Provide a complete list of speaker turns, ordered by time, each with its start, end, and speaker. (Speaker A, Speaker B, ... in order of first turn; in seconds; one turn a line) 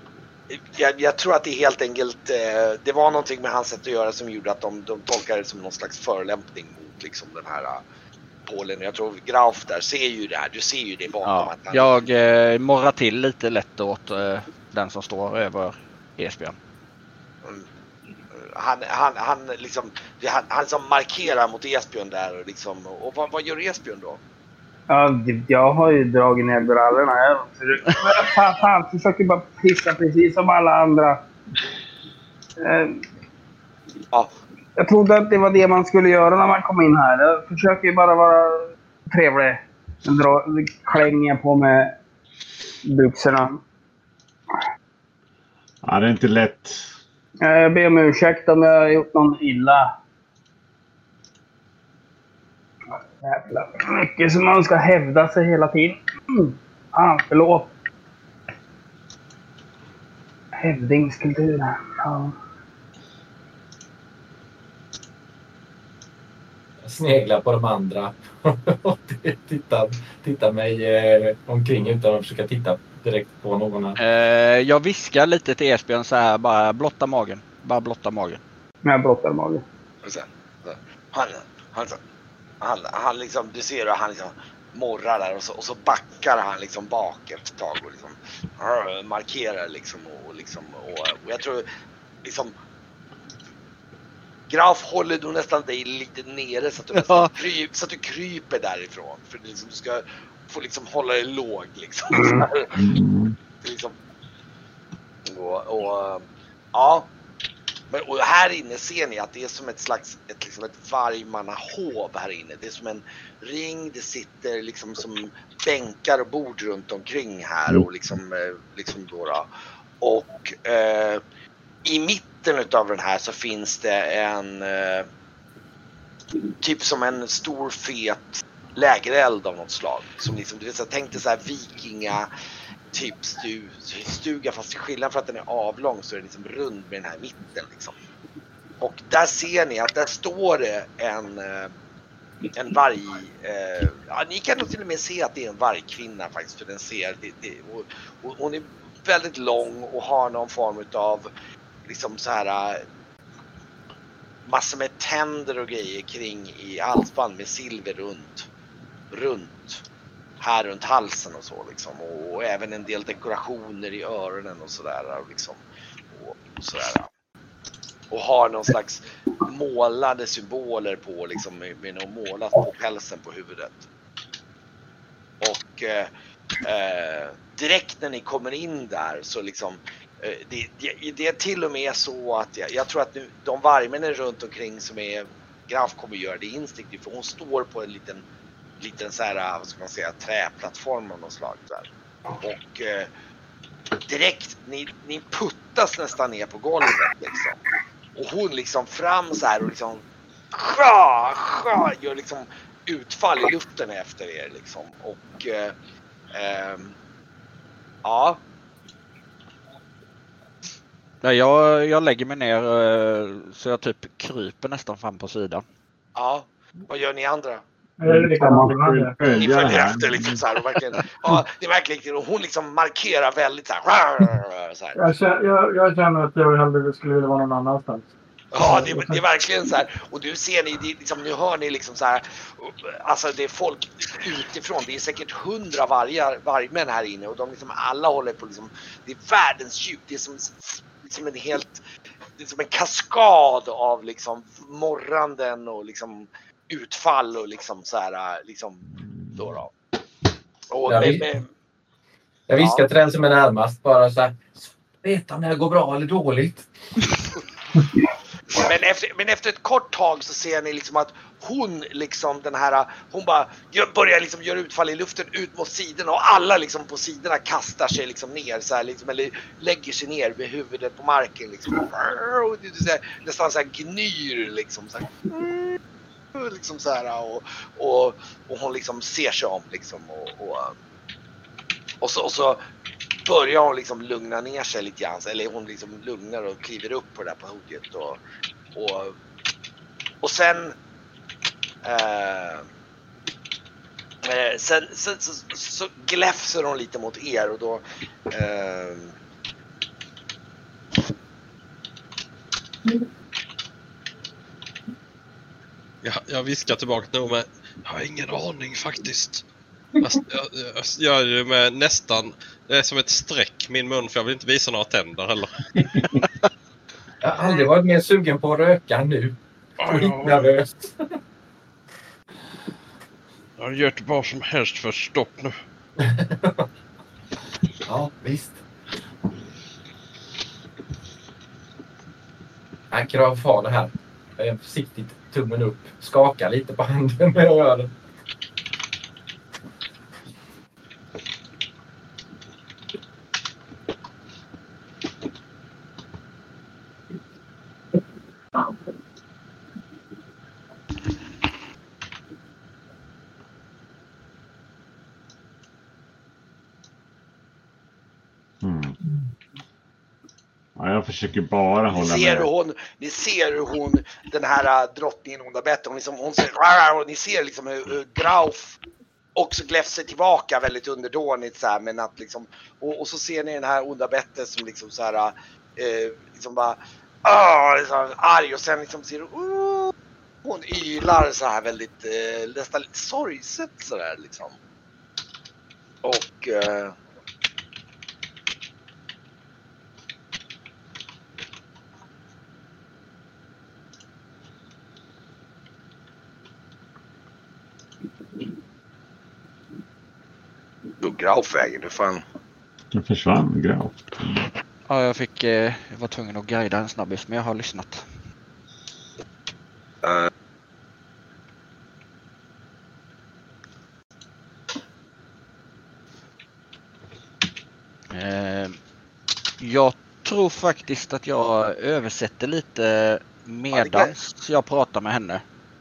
Speaker A: 0.5-7.8
Speaker A: 8.4-12.1
Speaker B: 11.2-16.6
Speaker A: 18.3-24.2
Speaker C: 24.9-31.2
Speaker C: 32.6-33.0
Speaker C: 34.8-42.0
Speaker C: 42.9-43.6
Speaker D: 45.8-46.9
Speaker C: 47.4-49.9
Speaker C: 53.1-57.7
Speaker C: 60.6-62.4
Speaker E: 66.8-74.0
Speaker B: 74.0-78.4
Speaker C: 78.8-79.6
Speaker A: 80.0-82.0
Speaker A: 82.6-91.7
Speaker A: 92.2-92.5
Speaker A: 94.5-102.8
Speaker B: 96.9-97.3
Speaker C: 102.1-102.5
Speaker D: 102.7-103.4
Speaker A: 103.6-104.0
Speaker A: 105.3-107.1
Speaker A: 107.9-119.5
Speaker A: 120.0-121.2
Speaker A: 121.8-125.1
Speaker A: 126.6-132.3
Speaker A: 132.9-137.9
Speaker A: 138.8-141.7
Speaker A: 142.5-151.3
Speaker A: 151.8-152.8
Speaker A: 154.4-158.5
Speaker A: 159.1-159.8
Speaker A: 160.4-165.6
Speaker A: 166.1-167.1
Speaker A: 168.1-173.8
Speaker A: 175.4-176.1
Speaker A: 176.6-188.2
Speaker A: 188.8-193.1
Speaker A: 194.1-197.6
Speaker A: 198.1-205.7
Speaker A: 206.3-206.9
Speaker A: 208.0-208.4
Speaker B: 211.2-215.6
Speaker A: 216.2-217.6
Speaker F: 218.0-219.2
Speaker D: 218.0-220.4
Speaker C: 218.4-218.7
Speaker A: 219.3-225.0
Speaker F: 224.9-229.2
Speaker A: 228.5-241.8
Speaker A: 242.4-249.7
Speaker D: 248.9-249.6
Speaker A: 250.7-251.5
Speaker E: 250.9-251.3
Speaker E: 252.5-257.1
Speaker A: 252.6-252.8
Speaker A: 258.5-275.8
Speaker A: 276.3-280.7
Speaker A: 282.0-282.6
Speaker A: 283.2-288.2
Speaker A: 288.7-289.1
Speaker A: 290.2-290.8
Speaker A: 291.8-292.7
Speaker A: 294.2-299.1
Speaker G: 306.0-309.4
Speaker G: 310.0-315.7
Speaker E: 317.2-321.1
Speaker G: 319.8-320.5
Speaker G: 323.6-325.6
Speaker E: 326.0-326.7
Speaker E: 327.9-328.6
Speaker E: 332.9-337.9
Speaker D: 358.6-359.0
Speaker D: 360.8-362.5
Speaker A: 361.9-368.8
Speaker A: 369.4-379.9
Speaker A: 380.4-384.6
Speaker A: 386.0-386.9
Speaker A: 401.0-402.2
Speaker D: 402.9-404.5
Speaker B: 404.9-408.0
Speaker A: 410.0-410.3
Speaker B: 418.1-418.8
Speaker B: 419.6-425.4
Speaker A: 423.7-424.1